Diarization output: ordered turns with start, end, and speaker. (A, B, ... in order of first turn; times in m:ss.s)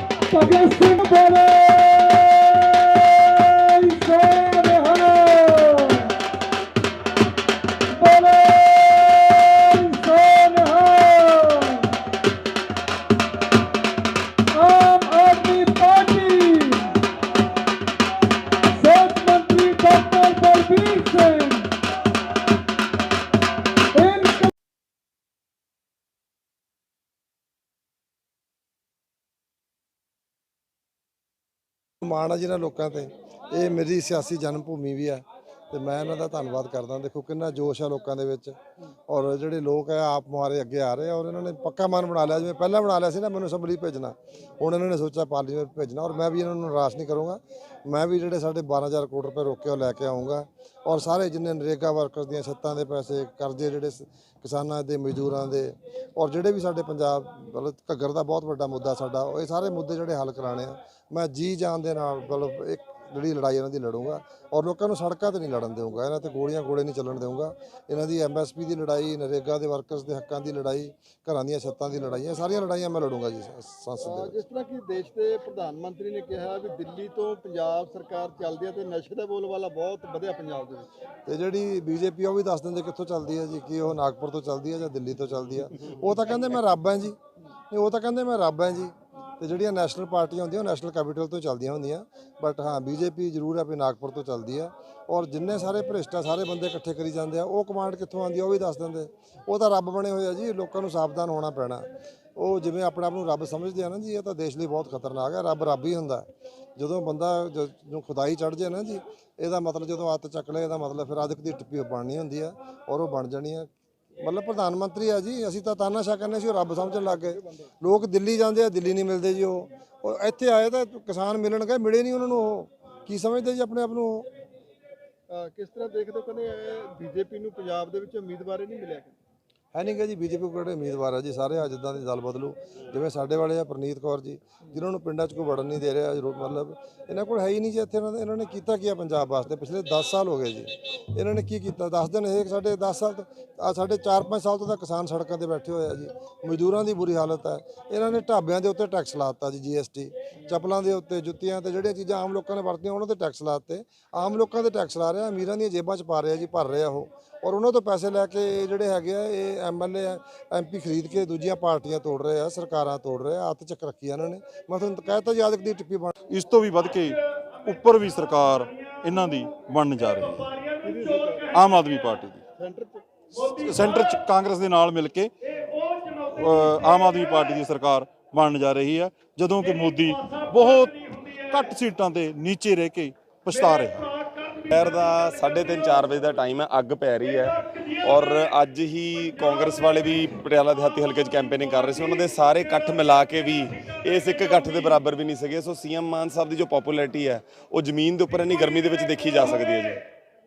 0:00.3-0:06.2 A
0:07.9-0:12.0 A
0:14.5-0:17.0 A
0:18.7-0:21.8 A
0:23.9-0:24.5 A
0:32.0-0:38.6 B
0:39.1-1:14.4 B
1:14.0-1:20.9 C
1:21.3-1:27.2 B
1:27.7-1:41.9 B
1:42.4-1:53.7 B
1:54.2-2:04.3 B
1:57.1-1:57.7 C
2:05.3-2:09.2 C
2:09.7-2:46.2 B
2:46.3-2:50.5 D
2:50.8-2:51.4 C
2:51.5-2:52.4 D
2:52.6-2:53.0 C
2:53.4-2:55.3 D
2:56.1-3:04.1 D
3:04.7-3:20.0 E